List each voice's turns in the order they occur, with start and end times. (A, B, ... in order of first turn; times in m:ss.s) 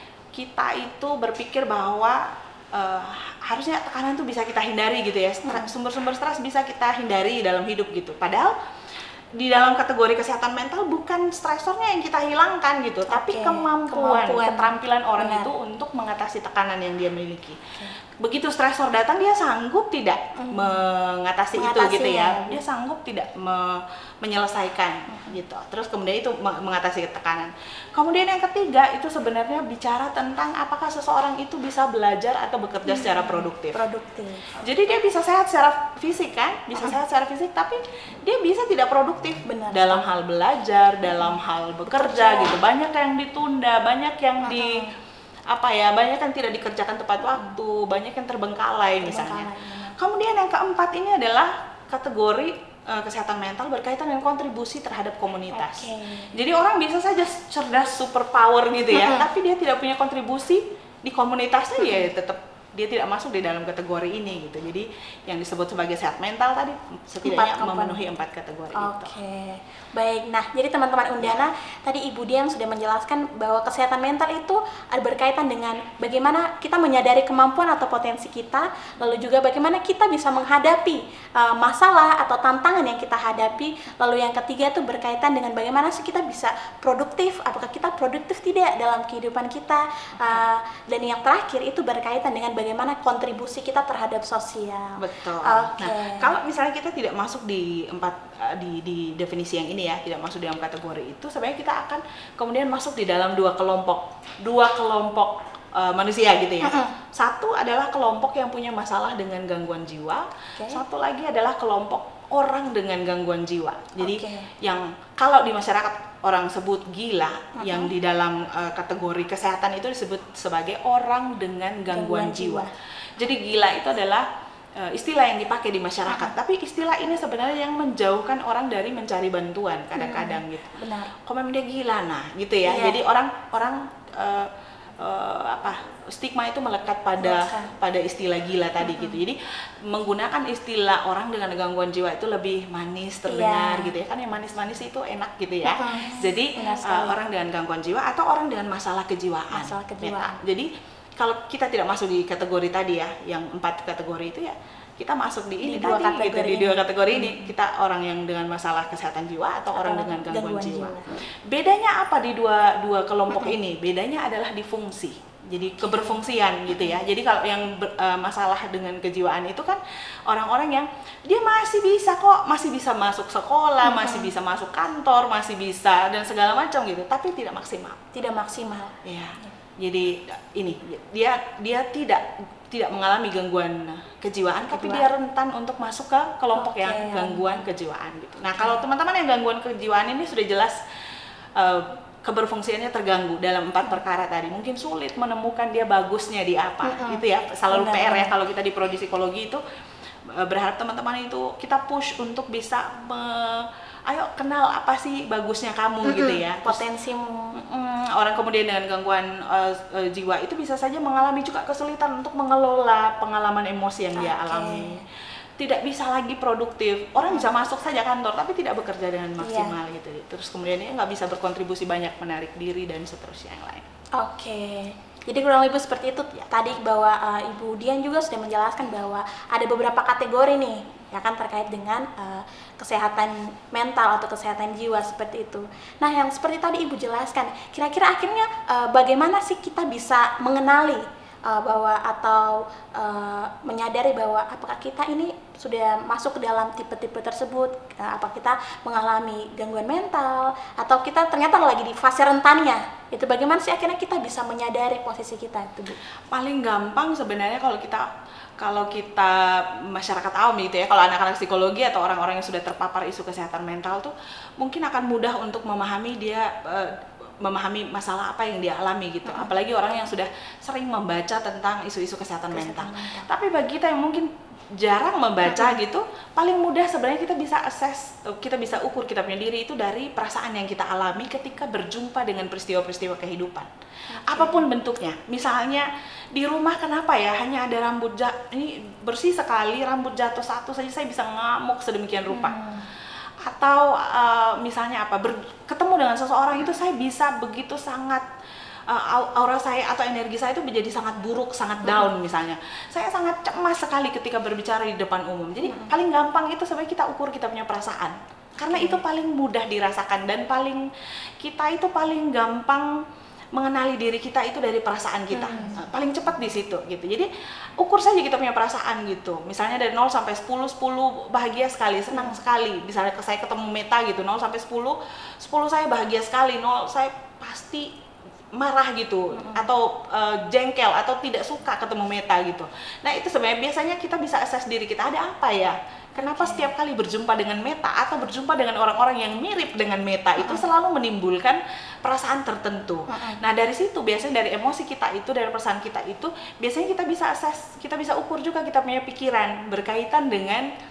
0:00.3-0:08.5 A
0:05.4-0:05.7 B
0:09.4-0:33.8 A
0:13.1-0:15.5 B
0:20.4-0:20.8 B
0:21.6-0:22.6 B
0:32.9-0:34.4 B
0:34.6-0:44.9 A
0:39.4-0:40.1 B
0:41.9-0:42.5 B
0:44.4-0:44.9 B
0:45.5-1:09.1 A
0:49.0-0:50.0 B
0:55.5-0:56.3 B
0:58.9-0:59.2 B
1:01.8-1:02.0 B
1:07.2-1:08.0 B
1:08.7-1:36.3 B
1:35.0-2:58.0 A
1:46.6-1:46.9 B
1:50.6-1:50.8 B
1:54.0-1:54.5 B
1:57.6-1:57.9 B
2:01.9-2:02.7 B
2:06.1-2:06.3 B
2:10.0-2:11.1 B
2:12.6-2:13.0 B
2:17.2-2:17.7 B
2:18.8-2:19.2 B
2:23.3-2:23.9 B
2:25.6-2:27.2 B
2:29.5-2:30.4 B
2:35.6-2:37.5 B
2:39.7-2:41.2 B
2:43.3-2:43.6 B
2:45.8-2:46.2 B
2:53.8-2:54.3 B
2:58.1-2:59.5 B
2:59.0-3:10.8 A
3:04.6-3:05.1 B
3:06.6-3:07.7 B
3:11.6-3:19.6 A
3:16.8-3:18.3 B
3:20.3-3:26.8 A
3:26.0-3:27.5 B
3:27.5-3:35.0 A
3:34.2-3:35.0 B
3:35.6-3:43.9 A
3:39.4-3:39.7 B
3:44.1-4:16.0 B
4:16.3-4:18.1 A
4:18.6-4:43.7 A
4:32.5-4:33.3 B
4:35.5-4:35.7 B
4:44.1-4:44.6 B
4:44.2-4:52.6 A
4:52.3-4:52.9 B
4:53.4-4:58.2 A
4:58.9-5:10.8 A
5:05.6-5:05.9 B
5:08.7-5:09.0 B
5:11.4-5:13.0 A
5:13.5-5:27.9 A
5:15.3-5:15.8 B
5:22.1-5:22.4 B
5:28.5-5:50.7 A
5:29.3-5:29.7 B
5:36.2-5:36.7 B
5:40.4-5:40.6 B
5:43.1-5:43.4 B